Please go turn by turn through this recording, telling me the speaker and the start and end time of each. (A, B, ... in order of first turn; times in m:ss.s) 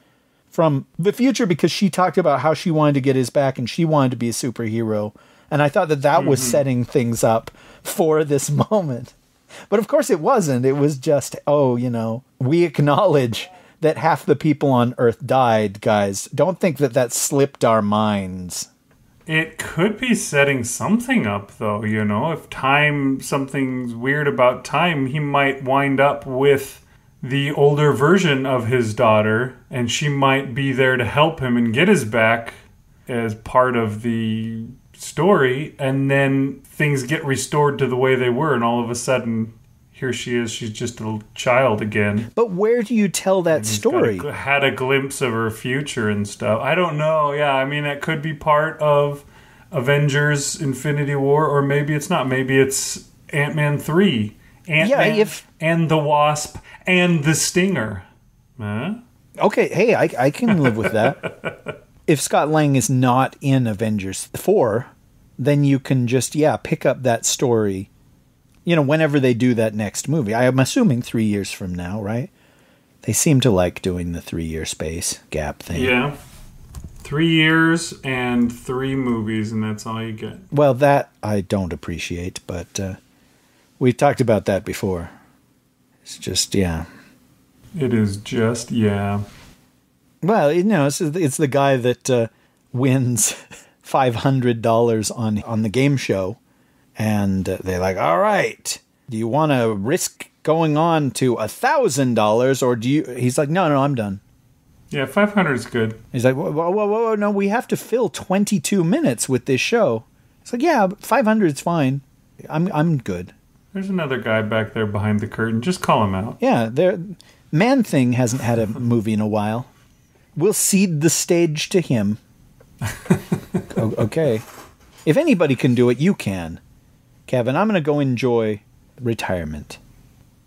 0:00.5-0:09.1 A
0:06.1-0:06.6 B
0:09.7-0:18.7 A
0:19.2-0:42.3 B
0:42.3-0:44.3 A
0:43.5-0:58.0 B
0:54.8-0:55.4 A
0:58.6-0:59.0 B
0:59.4-1:01.2 A
1:00.6-1:01.5 B
1:02.0-1:07.9 A
1:08.6-1:12.3 A
1:13.0-1:15.9 A
1:15.7-1:16.2 B
1:17.0-1:20.5 B
1:20.5-1:23.0 A
1:23.8-1:25.1 A
1:26.0-1:26.8 A
1:27.7-1:29.2 B
1:30.2-1:36.4 A
1:37.0-1:44.2 A
1:44.9-1:46.0 B
1:46.1-1:53.3 A
1:53.7-1:56.4 B
1:56.4-1:59.7 A
2:00.3-2:02.2 A
2:02.9-2:03.6 B
2:03.7-2:04.4 A
2:05.0-2:06.6 A
2:07.3-2:09.8 A